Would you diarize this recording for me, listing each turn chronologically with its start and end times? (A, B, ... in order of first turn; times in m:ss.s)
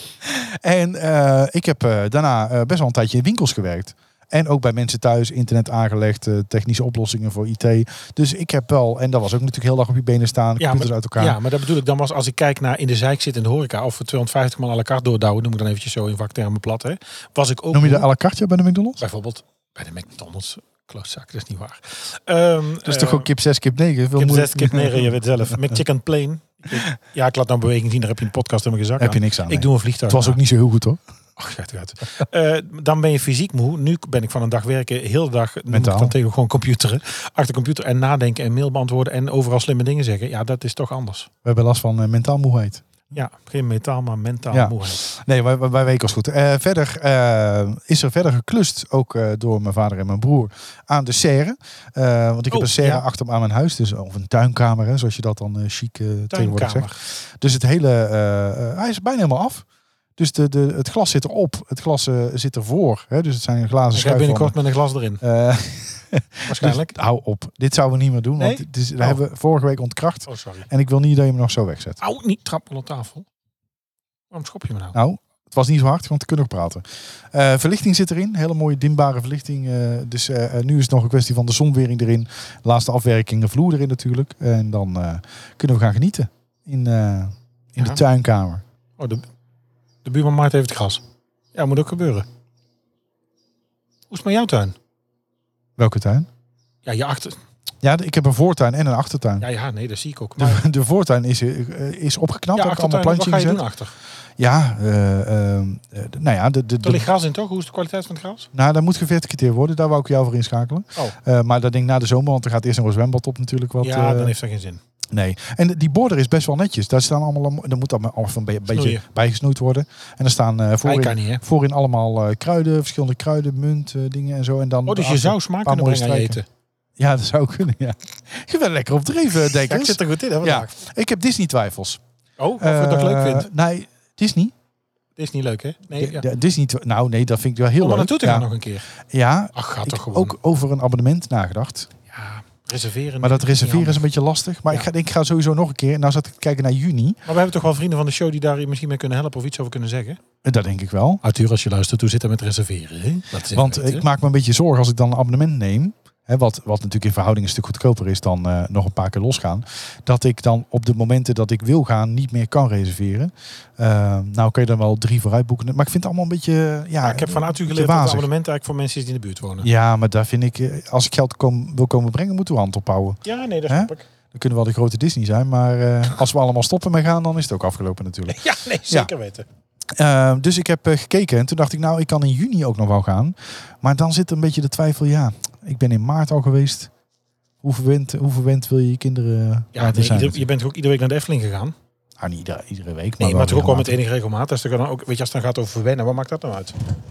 0:00.2-0:11.4 A
0:10.6-0:18.1 B
0:17.7-0:19.0 A
0:19.0-0:23.3 B
0:22.8-0:25.8 A
0:24.2-0:30.4 B
0:29.0-0:31.0 A
0:31.4-0:41.3 B
0:35.7-0:36.1 A
0:41.4-0:42.8 A
0:43.1-0:45.0 B
0:44.5-0:59.6 A
0:52.5-0:53.0 B
0:56.3-0:57.0 B
1:00.2-1:04.6 A
1:03.9-1:05.2 B
1:05.2-1:12.0 A
1:06.4-1:06.9 B
1:08.4-1:09.2 B
1:10.3-1:10.7 B
1:12.0-1:13.2 B
1:14.3-1:15.0 B
1:14.9-1:28.6 A
1:29.0-1:29.2 B
1:30.0-1:31.0 B
1:31.5-1:32.2 B
1:34.1-1:34.7 B
1:35.8-1:36.3 A
1:36.8-1:37.4 B
1:37.8-1:39.4 A
1:39.4-1:40.6 B
1:40.4-1:43.6 A
1:42.5-1:43.9 B
1:44.4-1:47.1 A
1:46.8-1:48.5 B
1:48.5-1:54.3 A
1:53.8-1:54.8 B
1:55.1-2:06.4 A
1:58.7-1:59.0 B
2:00.8-2:01.4 B
2:04.9-2:06.4 B
2:07.0-2:12.0 A
2:09.6-2:10.7 B
2:12.4-2:13.5 B
2:12.6-2:14.5 A
2:15.2-2:16.2 B
2:16.0-2:18.5 A
2:17.8-2:18.8 B
2:19.0-2:21.9 A
2:19.5-2:20.4 B
2:22.1-2:24.0 B
2:23.2-2:27.2 A
2:27.2-2:30.2 B
2:30.4-2:31.2 A
2:31.2-2:34.0 B
2:33.5-2:48.3 A
2:47.0-2:49.7 B
2:49.6-2:59.1 A
2:53.2-2:54.0 B
2:58.3-2:59.4 B
2:59.9-3:06.9 A
3:07.6-3:10.4 A
3:09.7-3:11.7 B
3:12.2-3:14.0 A
3:13.2-3:16.8 B